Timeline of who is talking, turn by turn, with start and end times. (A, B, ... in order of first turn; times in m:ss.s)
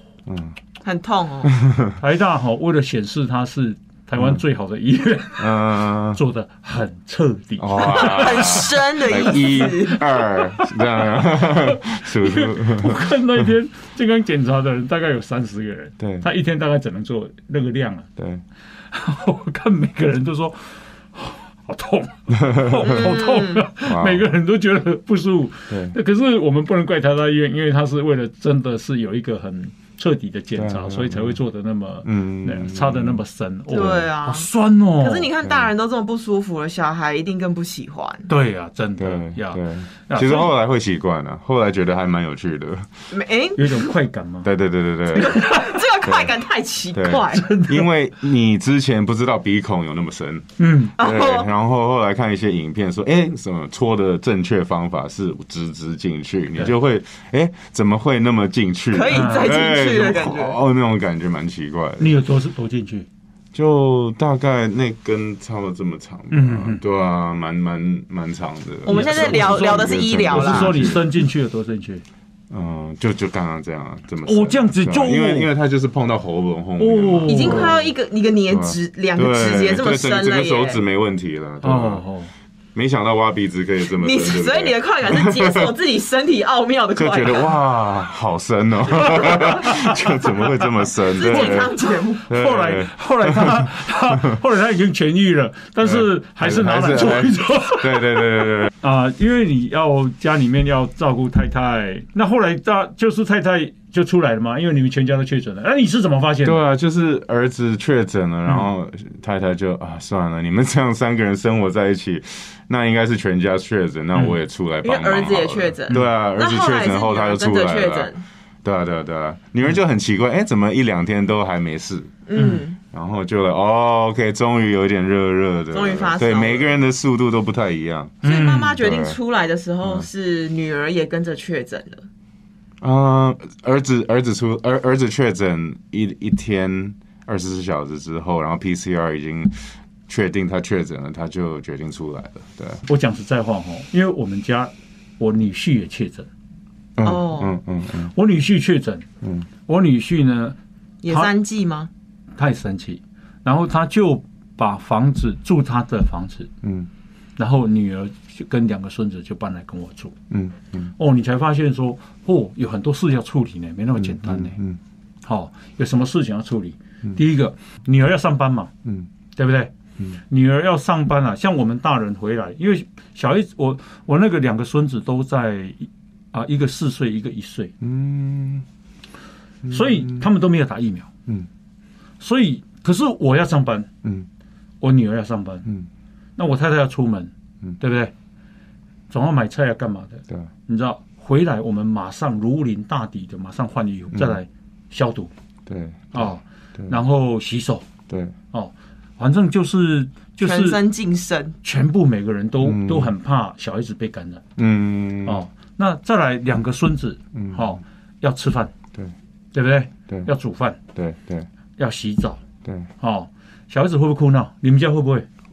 0:00.2-0:00.6 A
0:00.8-0:01.5 B
0:01.4-0:02.0 A
0:02.0-0:08.6 C
0:05.4-0:06.2 A
0:07.6-0:13.5 A
0:07.8-0:10.1 B
0:09.3-0:18.1 C
0:16.0-0:16.2 A
0:18.2-0:18.4 A
0:18.9-0:35.3 C
0:22.3-0:23.1 A
0:22.8-0:23.7 B
0:23.8-0:24.3 A
0:25.7-0:26.0 A
0:30.6-0:31.4 A
0:32.0-0:33.2 A
0:33.7-0:38.3 B
0:35.4-0:35.7 A
0:38.3-0:40.5 C
0:39.0-0:42.9 A
0:43.1-0:43.9 B
0:43.6-0:44.5 C
0:44.4-0:45.4 A
0:45.1-0:47.6 B
0:45.2-0:45.8 C
0:46.0-0:46.4 A
0:46.9-1:02.2 A
0:47.3-0:47.9 C
0:50.6-0:51.0 C
0:51.0-0:51.5 B
0:58.9-1:00.6 B
0:59.1-0:59.6 C
1:02.0-1:03.1 C
1:03.5-1:11.0 A
1:06.3-1:06.8 C
1:08.8-1:10.9 B
1:08.8-1:12.0 C
1:12.5-1:17.9 A
1:14.2-1:15.5 C
1:16.8-1:17.7 C
1:17.2-1:20.8 B
1:18.5-1:22.0 A
1:21.6-1:22.3 C
1:22.7-1:25.7 A
1:23.9-1:27.5 B
1:26.9-1:31.8 A
1:29.1-1:29.6 B
1:29.3-1:29.9 C
1:31.0-1:32.3 B
1:31.3-1:46.6 C
1:32.3-1:34.4 A
1:35.8-1:38.7 A
1:46.4-1:58.1 A
1:54.8-1:58.2 B
1:58.6-2:02.2 A
2:02.3-2:02.8 B
2:02.3-2:02.6 C
2:02.9-2:08.2 A
2:05.7-2:06.7 B
2:08.2-2:08.8 C
2:08.2-2:12.0 B
2:08.8-2:09.2 A
2:12.8-2:19.6 A
2:20.1-2:22.8 A
2:22.8-2:26.3 C
2:27.0-2:28.1 A
2:27.0-2:27.6 B
2:28.1-2:29.0 C
2:29.2-2:29.5 A
2:29.7-2:30.6 C
2:31.0-2:31.9 B
2:32.4-2:36.5 C
2:36.6-2:36.9 A
2:37.4-2:40.2 C
2:40.3-2:40.9 A
2:41.0-2:44.6 C
2:44.0-2:44.8 A
2:45.2-2:48.7 C
2:49.4-2:49.7 C
2:50.3-2:57.7 C
2:57.8-2:58.6 A
2:59.6-3:00.2 A
2:59.7-3:01.1 C
3:02.2-3:03.9 C
3:04.8-3:05.7 C
3:06.4-3:08.1 C
3:09.1-3:15.3 C
3:14.1-3:14.4 A
3:15.6-3:17.0 A
3:16.1-3:17.8 C
3:18.1-3:18.3 A
3:18.5-3:20.8 C
3:20.4-3:21.6 B
3:21.6-3:24.4 C
3:22.6-3:23.1 A
3:24.6-3:25.4 A
3:25.2-3:28.7 C
3:27.3-3:27.8 A
3:29.5-3:30.8 C
3:30.9-3:31.5 A
3:31.8-3:32.4 C
3:32.6-3:32.9 A
3:33.0-3:35.2 C